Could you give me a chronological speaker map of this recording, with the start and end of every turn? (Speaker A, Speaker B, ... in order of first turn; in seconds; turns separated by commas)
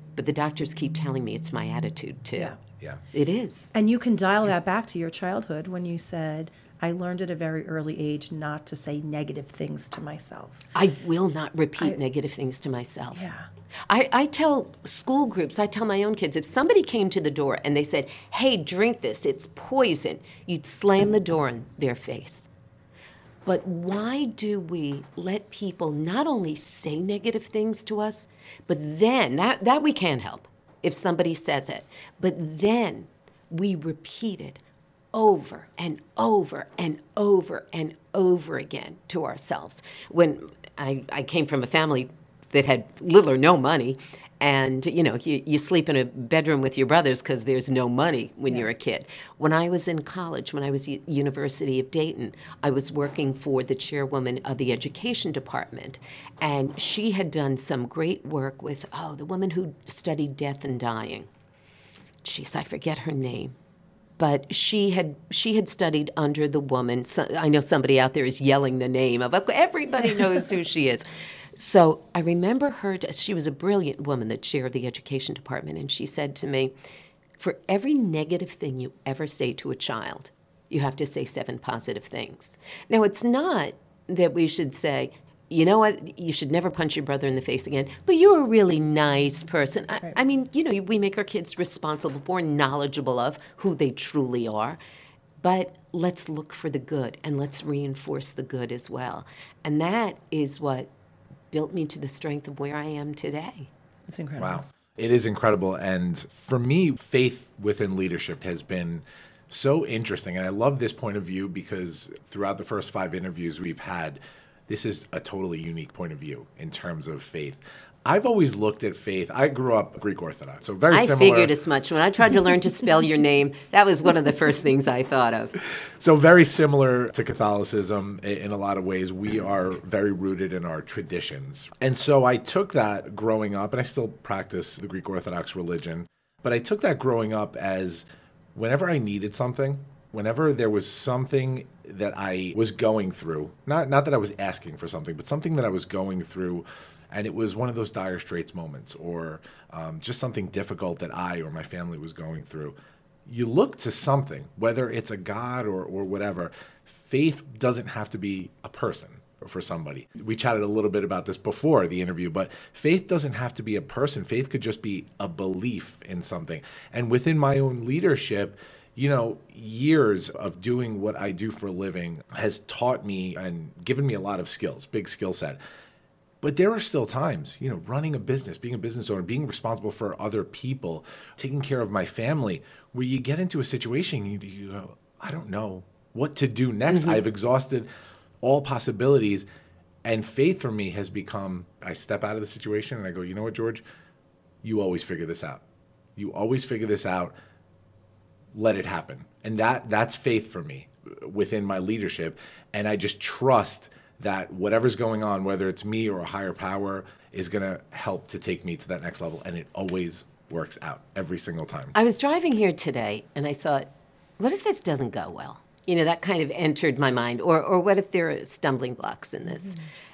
Speaker A: 0.2-2.5, Speaker A: 3.1-3.7, Speaker B: 3.7-10.7, Speaker A: 10.7-13.2, Speaker B: 13.1-13.5, Speaker A: 13.9-22.5, Speaker A: 23.5-34.6, Speaker A: 35.1-61.3, Speaker A: 62.2-63.5, Speaker A: 64.2-76.7, Speaker A: 77.4-94.8, Speaker A: 95.4-100.9, Speaker A: 101.5-103.7, Speaker B: 104.1-104.6, Speaker C: 104.4-121.5, Speaker A: 120.9-125.5, Speaker C: 126.0-152.8, Speaker C: 153.3-175.6, Speaker C: 176.4-187.9, Speaker A: 186.9-187.2, Speaker C: 188.4-189.4, Speaker C: 190.1-193.8, Speaker C: 194.6-195.6, Speaker C: 196.2-197.3, Speaker C: 198.5-211.9, Speaker A: 211.9-219.8